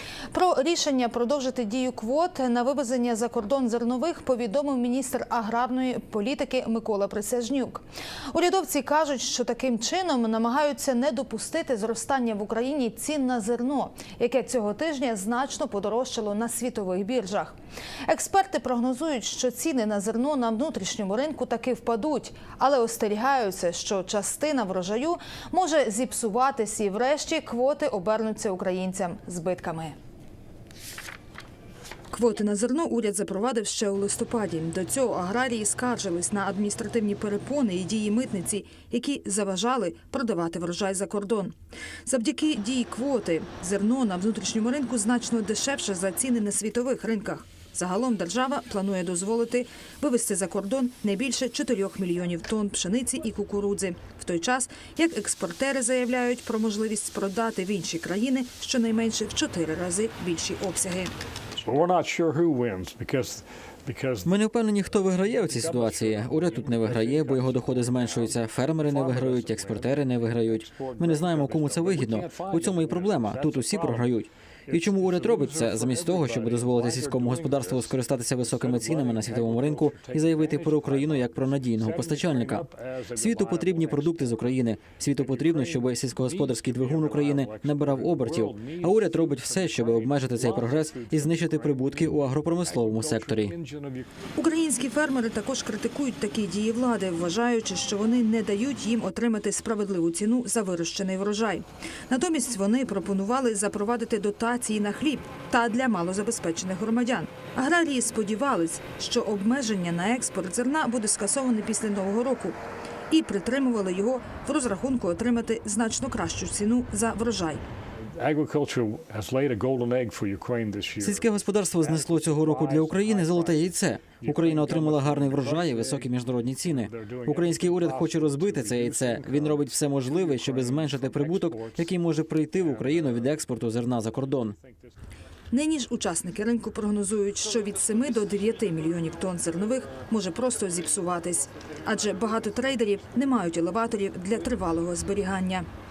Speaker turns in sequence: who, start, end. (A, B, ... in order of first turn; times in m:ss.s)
0:00.3-0:30.0 A
0:32.1-1:01.1 A
1:01.6-1:04.4 B
1:04.2-1:22.6 C
1:05.0-1:34.2 B
1:23.2-1:33.5 C
1:34.4-1:52.6 A
1:53.1-1:57.6 A
1:58.1-2:14.9 B
2:01.0-2:14.6 C
2:15.5-2:25.6 A